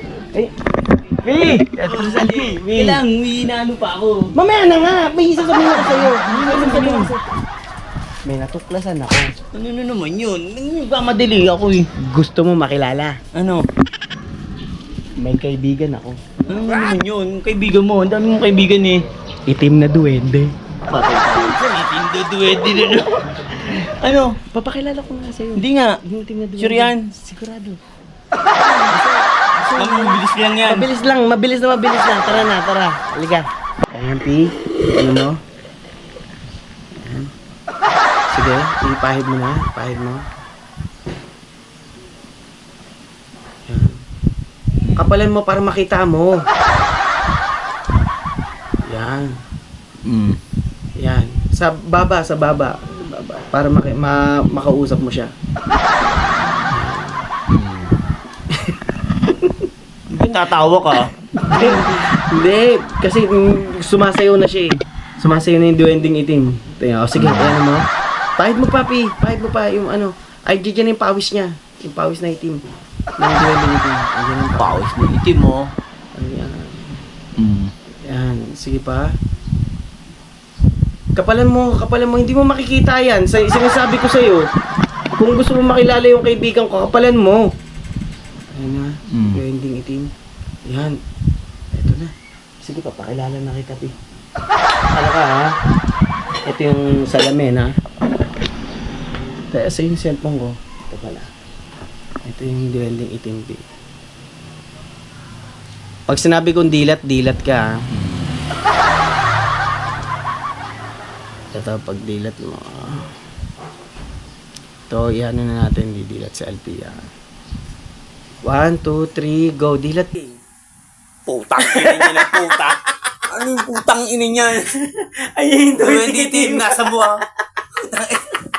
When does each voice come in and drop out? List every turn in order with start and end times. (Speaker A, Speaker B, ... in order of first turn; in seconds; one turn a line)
Speaker A: 1.2-3.0
Speaker B: 1.4-4.3
Speaker A: 4.3-7.2
Speaker B: 5.7-7.2
Speaker A: 8.3-9.3
Speaker B: 9.5-11.9
Speaker A: 12.0-13.2
Speaker B: 13.3-13.7
Speaker A: 15.2-16.2
Speaker B: 16.5-19.0
Speaker A: 19.5-20.5
Speaker B: 20.9-24.4
Speaker A: 24.5-27.8
Speaker B: 25.6-26.0
Speaker B: 26.6-27.1
Speaker A: 28.8-35.4
Speaker B: 29.7-30.9
Speaker A: 37.0-37.3
Speaker A: 38.3-40.2
Speaker A: 43.7-44.0
Speaker A: 44.9-46.4
Speaker A: 48.9-49.3
Speaker B: 50.1-50.4
Speaker A: 51.0-55.3
Speaker A: 56.6-57.3
Speaker B: 57.5-58.0
Speaker A: 59.4-59.7
Speaker B: 60.1-61.7
Speaker A: 61.4-67.9
Speaker B: 67.2-67.6
Speaker A: 68.4-72.6
Speaker A: 73.2-74.9
Speaker B: 74.6-75.7
Speaker A: 76.2-77.0
Speaker B: 77.4-77.7
Speaker A: 78.0-79.1
Speaker A: 81.2-84.4
Speaker A: 85.2-87.4
Speaker A: 88.5-90.1
Speaker A: 90.7-91.0
Speaker A: 91.7-92.1
Speaker A: 92.6-93.9
Speaker A: 94.9-95.5
Speaker A: 96.5-97.7
Speaker A: 99.5-101.3
Speaker A: 102.3-103.6
Speaker A: 106.1-107.8
Speaker B: 108.0-108.3
Speaker A: 111.5-113.1
Speaker A: 114.9-117.0
Speaker A: 118.4-120.4
Speaker B: 121.3-124.8
Speaker A: 121.6-122.6
Speaker A: 124.9-127.1
Speaker B: 125.8-127.2
Speaker B: 127.8-128.4